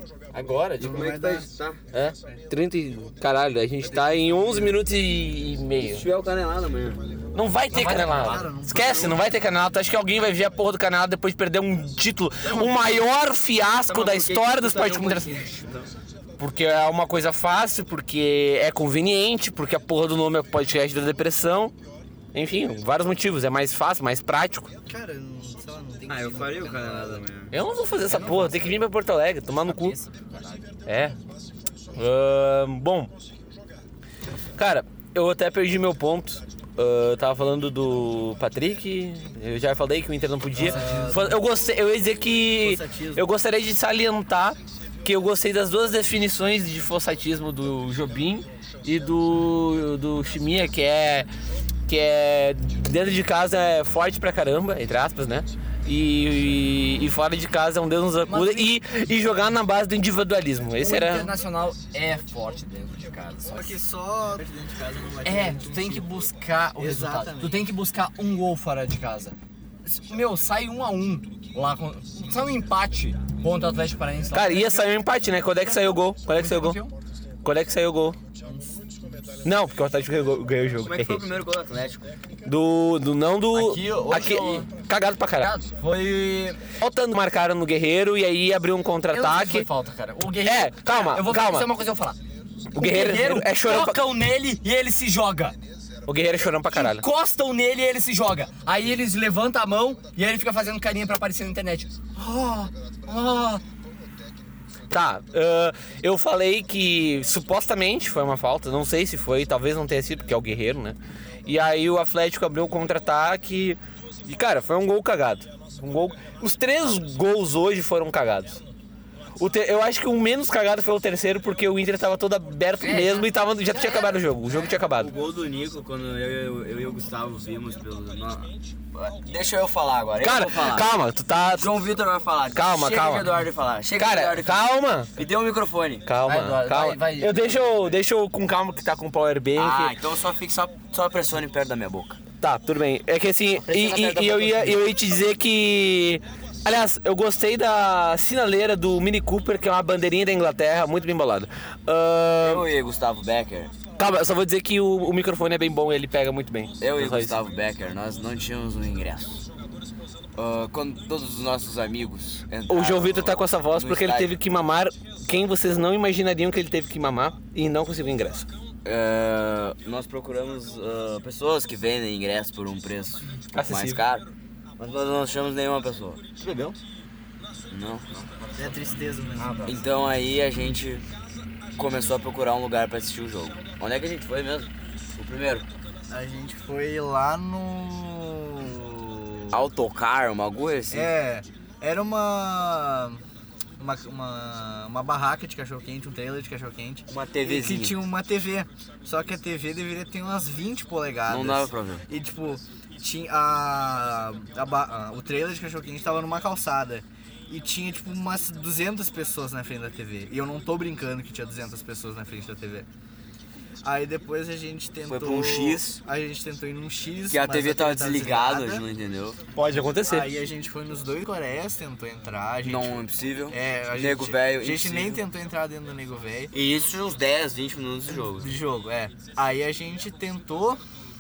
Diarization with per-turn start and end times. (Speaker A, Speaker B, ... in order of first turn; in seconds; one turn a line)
Speaker A: 0.3-1.1
Speaker B: 0.8-1.5
Speaker C: 0.8-1.8
Speaker D: 1.9-6.0
Speaker B: 3.8-4.7
Speaker C: 5.8-7.2
Speaker D: 7.3-15.4
Speaker A: 7.7-8.5
Speaker B: 7.9-9.3
Speaker C: 13.9-15.9
Speaker D: 16.4-21.7
Speaker D: 22.3-24.7
Speaker B: 24.9-27.2
Speaker C: 26.1-27.5
Speaker D: 27.5-30.0
Speaker A: 28.1-28.8
Speaker A: 29.6-30.7
Speaker D: 30.9-31.1
Speaker D: 31.9-33.1
Speaker D: 34.6-51.3
Speaker A: 40.6-41.3
Speaker B: 40.6-41.4
Speaker B: 42.4-43.2
Speaker D: 51.9-61.3
Speaker A: 58.3-58.7
Speaker A: 60.8-63.8
Speaker B: 63.5-67.7
Speaker A: 65.2-74.9
Speaker D: 74.3-76.8
Speaker A: 76.3-76.9
Speaker D: 77.4-78.2
Speaker D: 79.4-81.2
Speaker C: 80.8-82.1
Speaker D: 82.5-85.5
Speaker A: 83.5-84.7
Speaker A: 85.4-86.6
Speaker D: 86.8-89.7
Speaker A: 89.1-92.2
Speaker D: 90.4-91.7
Speaker D: 92.7-94.0
Speaker A: 92.8-95.6
Speaker D: 96.1-97.0
Speaker A: 96.7-103.6
Speaker D: 104.9-118.6
Speaker D: 119.4-125.1
Speaker A: 122.8-124.1
Speaker C: 124.8-130.9
Speaker D: 130.2-131.7
Speaker C: 131.5-136.1
Speaker D: 132.5-133.3
Speaker D: 134.0-135.1
Speaker D: 136.1-139.9
Speaker A: 136.2-137.7
Speaker C: 139.6-142.2
Speaker D: 142.4-152.7
Speaker A: 143.6-144.8
Speaker C: 152.4-153.7
Speaker D: 154.0-157.4
Speaker C: 156.8-159.4
Speaker C: 160.4-164.3
Speaker D: 162.7-168.5
Speaker C: 168.8-174.2
Speaker D: 173.5-174.0
Speaker C: 174.8-176.2
Speaker A: 176.4-176.8
Speaker C: 177.7-178.2
Speaker B: 178.6-179.6
Speaker A: 179.4-179.8
Speaker C: 179.7-181.1
Speaker C: 181.8-185.7
Speaker B: 186.1-189.6
Speaker C: 189.5-191.1
Speaker B: 190.9-193.2
Speaker B: 193.8-212.9
Speaker C: 197.1-198.0
Speaker C: 201.3-202.1
Speaker B: 213.8-218.8
Speaker C: 215.1-216.0
Speaker C: 217.3-219.4
Speaker D: 219.5-220.3
Speaker B: 220.0-226.5
Speaker C: 222.6-225.2
Speaker C: 226.5-228.5
Speaker B: 228.1-230.8